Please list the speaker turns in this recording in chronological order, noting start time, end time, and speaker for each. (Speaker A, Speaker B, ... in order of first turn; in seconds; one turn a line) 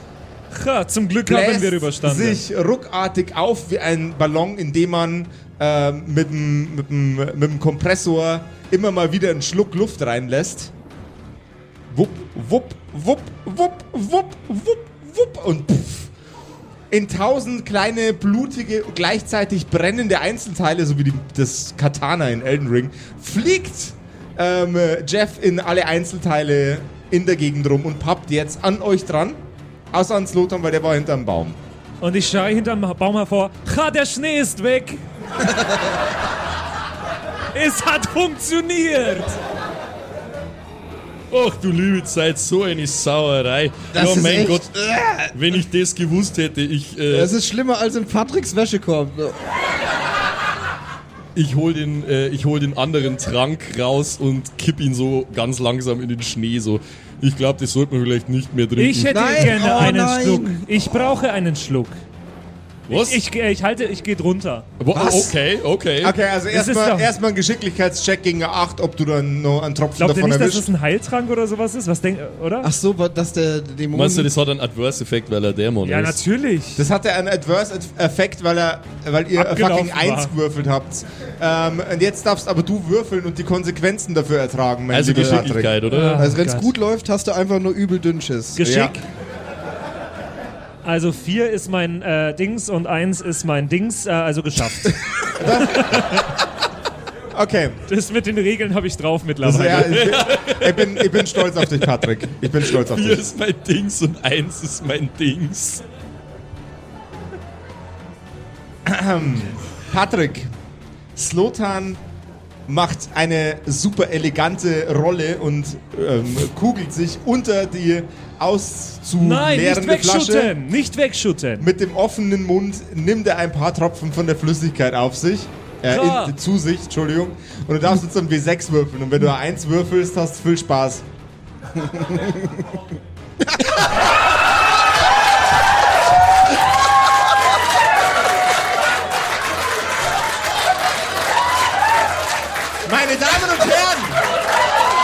Speaker A: 0.5-2.4
Speaker B: 1.2-10.7
Speaker B: 11.9-16.1
Speaker B: 16.9-31.6
Speaker A: 32.0-35.0
Speaker A: 37.5-39.4
Speaker C: 41.3-44.7
Speaker D: 43.9-45.5
Speaker C: 45.3-47.3
Speaker D: 47.1-49.4
Speaker C: 51.4-59.9
Speaker A: 58.8-62.0
Speaker D: 59.1-60.8
Speaker C: 62.9-63.2
Speaker A: 62.9-64.7
Speaker C: 64.8-66.2
Speaker D: 64.9-65.3
Speaker B: 66.0-70.7
Speaker A: 66.5-67.1
Speaker A: 70.0-72.7
Speaker D: 72.6-74.3
Speaker C: 73.9-76.2
Speaker A: 75.8-76.9
Speaker B: 76.8-85.8
Speaker A: 79.3-80.3
Speaker C: 84.9-86.2
Speaker A: 85.9-86.7
Speaker D: 85.9-88.7
Speaker A: 88.6-89.0
Speaker B: 88.6-89.0
Speaker A: 90.8-96.3
Speaker B: 95.3-96.2
Speaker B: 97.3-97.8
Speaker A: 97.9-100.2
Speaker B: 99.4-103.2
Speaker C: 99.7-105.8
Speaker B: 108.9-110.5
Speaker B: 111.2-112.0
Speaker B: 112.7-120.5
Speaker A: 119.2-121.7
Speaker B: 121.6-131.1
Speaker A: 125.9-126.3
Speaker B: 142.9-144.2